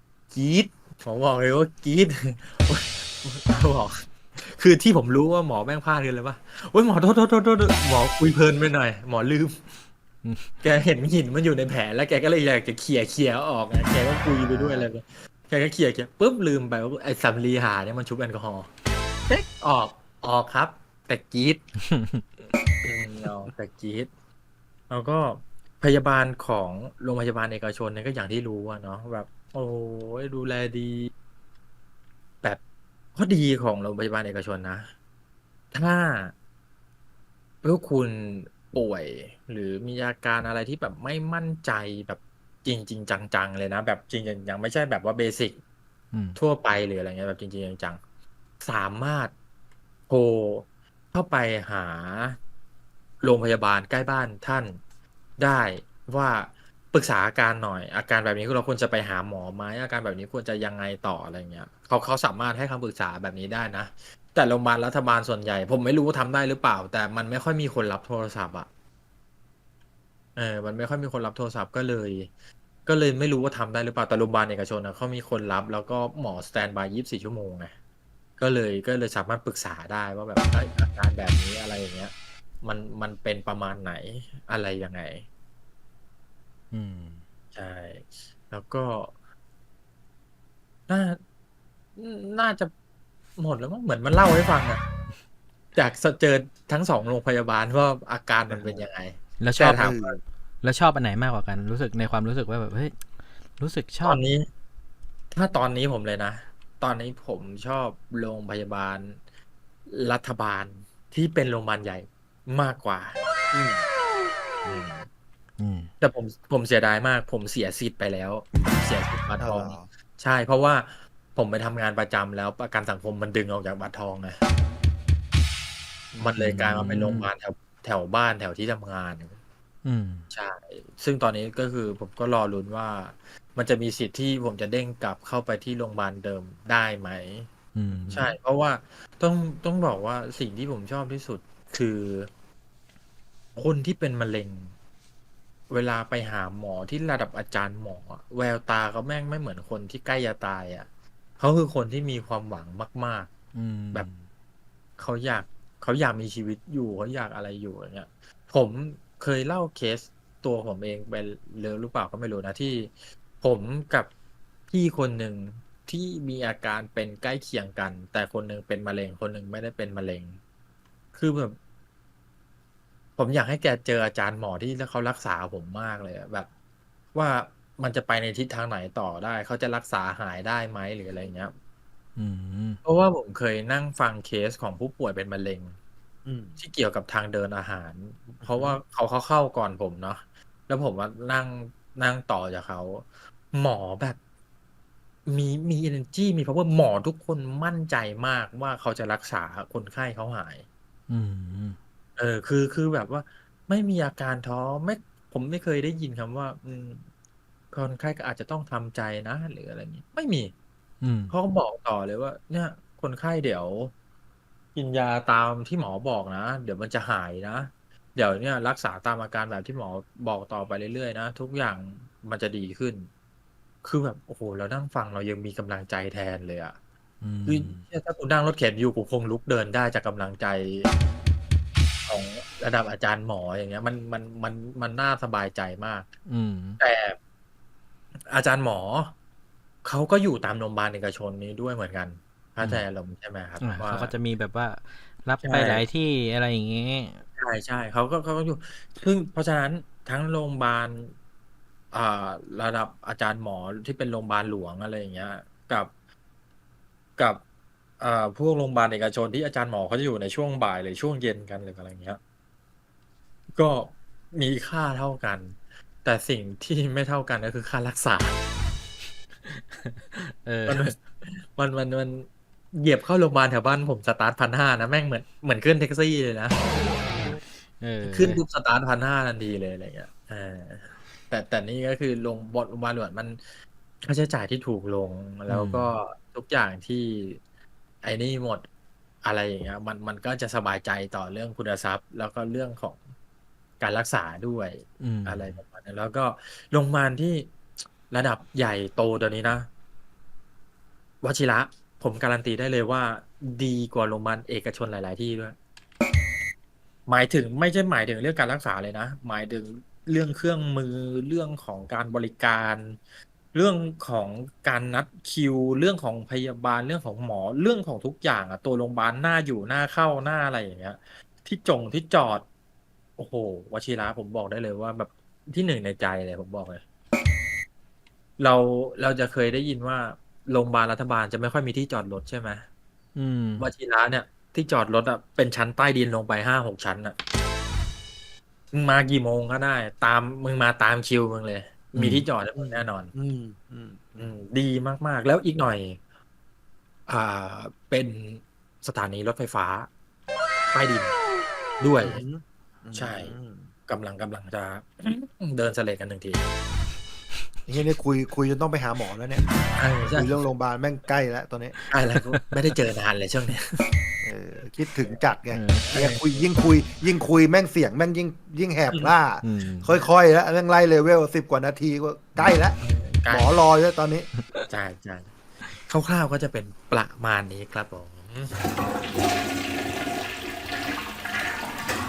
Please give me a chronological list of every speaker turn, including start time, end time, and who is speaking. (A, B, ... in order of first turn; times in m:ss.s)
0:00.3-0:09.6 A
0:10.2-0:10.5 B
0:10.6-0:18.7 A
0:14.5-0:14.9 C
0:19.6-0:21.6 A
0:21.8-0:22.2 B
0:22.8-0:24.1 A
0:24.9-0:31.1 A
0:33.1-0:34.9 A
0:35.7-0:36.3 A
0:37.6-0:45.6 A
0:46.1-0:46.4 B
0:46.4-0:48.0 A
0:48.6-0:49.3 A
0:50.1-0:52.4 A
0:53.2-0:54.8 A
0:55.4-1:08.7 A
1:10.4-1:12.3 A
1:12.8-1:17.7 A
1:18.4-1:25.3 A
1:26.7-1:27.2 B
1:27.5-1:29.1 A
1:30.9-1:31.2 A
1:32.0-1:32.7 A
1:33.4-1:34.8 A
1:35.7-1:40.1 A
1:38.5-1:38.8 C
1:39.4-1:39.9 B
1:39.7-1:40.2 C
1:40.6-1:43.0 B
1:43.6-1:44.2 B
1:44.0-1:44.5 A
1:45.3-1:49.2 A
1:49.9-1:53.2 A
1:53.5-1:53.9 C
1:54.6-1:55.1 A
1:55.6-1:55.9 B
1:56.0-2:04.4 A
1:59.4-1:59.9 C
2:06.2-2:09.4 A
2:06.4-2:07.3 B
2:09.8-2:10.2 B
2:10.3-2:17.5 A
2:17.7-2:18.3 B
2:18.1-2:22.3 A
2:23.6-2:24.7 A
2:25.7-2:30.9 A
2:31.4-2:33.3 A
2:33.5-2:34.2 B
2:35.0-2:44.1 A
2:44.7-2:50.4 A
2:51.1-2:51.6 A
2:53.2-2:56.5 A
2:57.1-3:01.5 A
3:02.2-3:02.8 B
3:02.8-3:05.8 A
3:06.2-3:06.6 C
3:06.6-3:14.2 A
3:08.4-3:08.8 C
3:15.2-3:20.6 A
3:21.1-3:21.8 B
3:22.2-3:27.1 A
3:27.7-3:30.5 A
3:31.0-3:31.3 B
3:31.3-3:33.9 A
3:34.7-3:43.1 A
3:43.8-3:46.8 A
3:47.2-3:47.8 B
3:47.5-3:50.9 A
3:52.1-3:56.1 A
3:56.2-3:56.8 B
3:56.8-3:57.2 A
3:58.3-3:59.1 A
3:59.8-4:04.1 A
4:02.6-4:02.8 B
4:03.6-4:07.2 B
4:05.4-4:05.8 A
4:07.4-4:11.1 A
4:11.9-4:15.9 A
4:18.0-4:22.2 A
4:23.6-4:28.4 A
4:29.4-4:30.9 B
4:30.7-4:36.6 A
4:37.8-4:38.4 B
4:38.0-4:43.4 A
4:44.0-4:47.4 A
4:45.5-4:45.9 B
4:48.0-4:48.6 A
4:49.2-4:53.0 A
4:53.8-4:57.5 A
4:55.0-4:55.6 B
4:58.1-4:59.7 A
5:01.2-5:05.6 A
5:07.1-5:13.0 A
5:13.5-5:22.4 A
5:23.2-5:26.8 A
5:28.4-5:32.6 A
5:33.2-5:33.7 B
5:33.6-5:37.2 A
5:38.7-5:43.1 A
5:41.9-5:42.2 B
5:42.5-5:44.3 C
5:44.2-5:46.0 A
5:47.1-5:49.9 A
5:50.7-5:51.1 A
5:51.8-5:52.2 A
5:52.0-5:53.7 C
5:52.9-5:53.3 A
5:53.9-5:56.5 A
5:57.7-5:59.5 C
5:59.8-6:00.4 A
6:00.1-6:01.8 C
6:01.9-6:03.8 A
6:04.2-6:12.8 C
6:05.5-6:05.9 B
6:05.9-6:06.4 A
6:09.4-6:10.0 B
6:12.8-6:13.6 A
6:13.3-6:14.3 C
6:14.7-6:15.3 A
6:15.8-6:18.5 A